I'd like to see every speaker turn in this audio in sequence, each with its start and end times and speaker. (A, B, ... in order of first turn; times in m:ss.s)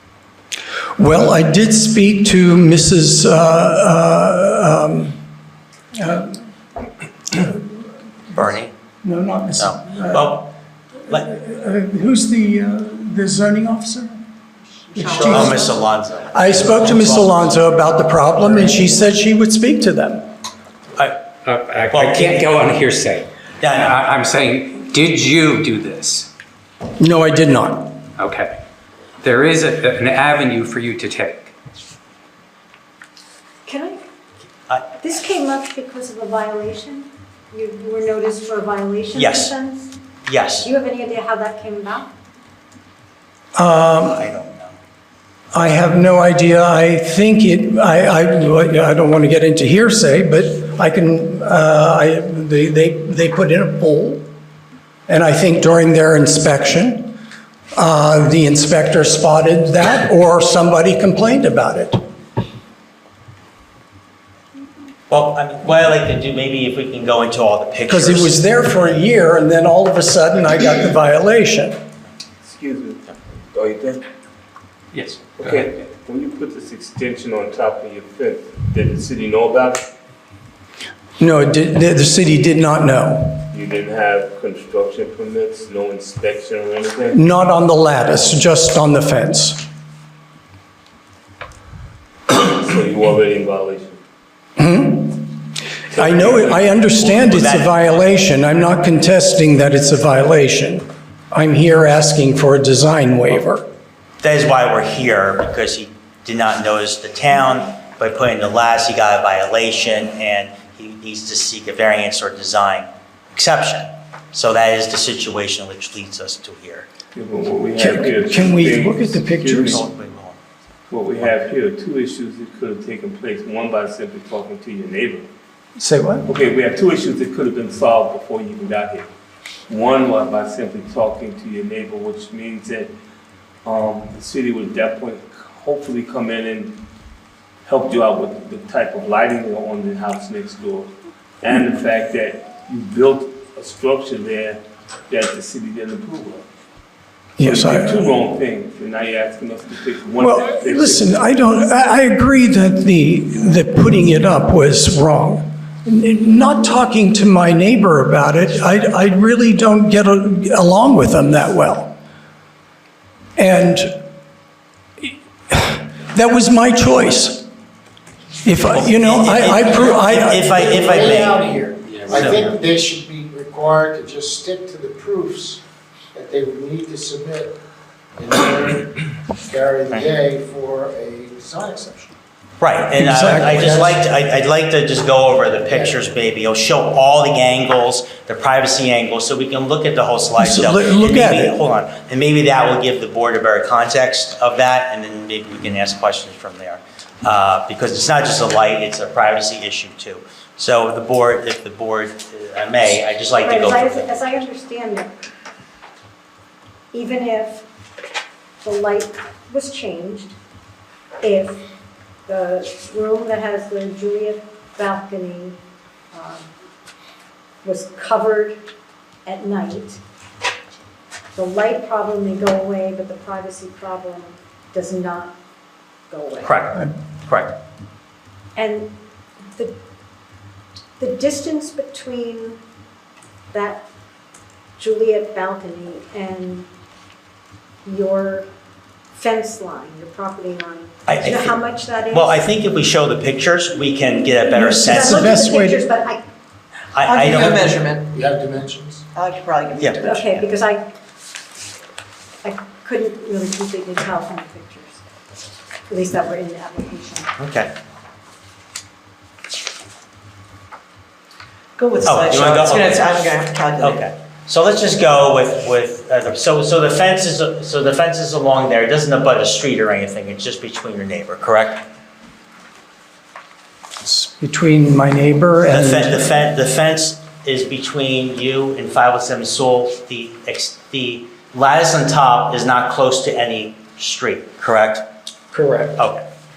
0:01.0-0:05.2 A
0:06.0-0:06.4 A
0:07.3-0:07.9 A
0:08.4-0:08.7 B
0:09.0-0:10.5 A
0:09.6-0:10.5 B
0:11.0-0:14.2 A
0:14.9-0:15.7 A
0:15.0-0:15.6 C
0:15.2-0:17.1 B
0:16.3-0:20.3 A
0:21.4-0:26.3 D
0:21.9-0:22.6 B
0:23.6-0:24.0 B
0:27.0-0:28.0 A
0:28.2-0:28.6 D
0:29.2-0:31.5 D
0:33.6-0:34.0 C
0:35.0-0:39.9 C
0:39.1-0:39.5 B
0:40.2-0:40.7 B
0:40.6-0:42.1 C
0:43.5-0:44.3 A
0:44.0-0:44.8 B
0:45.5-0:54.2 A
0:55.1-0:57.2 A
0:57.7-1:02.0 A
1:05.1-1:08.4 B
1:07.9-1:11.8 A
1:12.4-1:14.0 E
1:14.9-1:15.5 D
1:15.3-1:19.8 E
1:21.2-1:23.5 A
1:23.5-1:27.2 E
1:27.1-1:29.6 A
1:32.3-1:34.0 E
1:34.6-1:43.6 A
1:35.9-1:37.4 E
1:37.2-1:37.8 B
1:44.2-1:56.9 B
1:57.1-1:59.8 E
1:57.8-1:59.8 A
1:59.7-2:00.4 B
2:00.9-2:05.3 E
2:05.8-2:06.3 A
2:06.3-2:09.1 E
2:09.7-2:12.9 E
2:13.6-2:16.7 E
2:17.6-2:20.9 E
2:21.4-2:26.4 E
2:27.4-2:28.1 A
2:27.4-2:31.1 E
2:30.2-2:41.9 A
2:43.4-2:44.0 A
2:45.0-2:47.4 A
2:48.4-2:50.9 A
2:48.7-2:51.4 B
2:50.5-2:55.6 F
2:52.1-2:52.5 B
2:56.1-2:57.5 F
2:58.2-3:02.2 F
3:02.6-3:24.2 B
3:03.0-3:03.8 A
3:05.7-3:06.0 F
3:10.4-3:11.6 A
3:23.4-3:25.1 C
3:26.9-3:27.6 C
3:28.6-3:30.4 C
3:31.2-3:31.6 C
3:32.2-3:35.6 C
3:36.1-3:36.5 C
3:37.6-3:38.6 C
3:39.2-3:40.0 C
3:41.3-3:45.3 C
3:46.1-3:46.6 C
3:46.4-3:47.5 B
3:48.5-3:48.9 C
3:51.0-3:52.6 C
3:53.5-3:53.8 C
3:54.8-3:56.7 C
3:57.8-3:58.5 C
3:59.1-4:02.4 C
4:01.1-4:01.6 B
4:02.1-4:05.3 B
4:04.5-4:05.8 A
4:04.8-4:06.2 C
4:06.9-4:07.7 B
4:07.1-4:08.0 G
4:08.1-4:09.0 F
4:09.2-4:10.1 G
4:09.8-4:10.0 B
4:10.0-4:10.9 C
4:12.4-4:15.0 C
4:15.9-4:17.3 C
4:17.4-4:17.7 B
4:21.8-4:24.0 G
4:22.0-4:23.2 B
4:23.8-4:31.8 B
4:34.0-4:36.3 A
4:35.7-4:45.1 B
4:45.5-4:46.0 A
4:46.0-4:46.2 B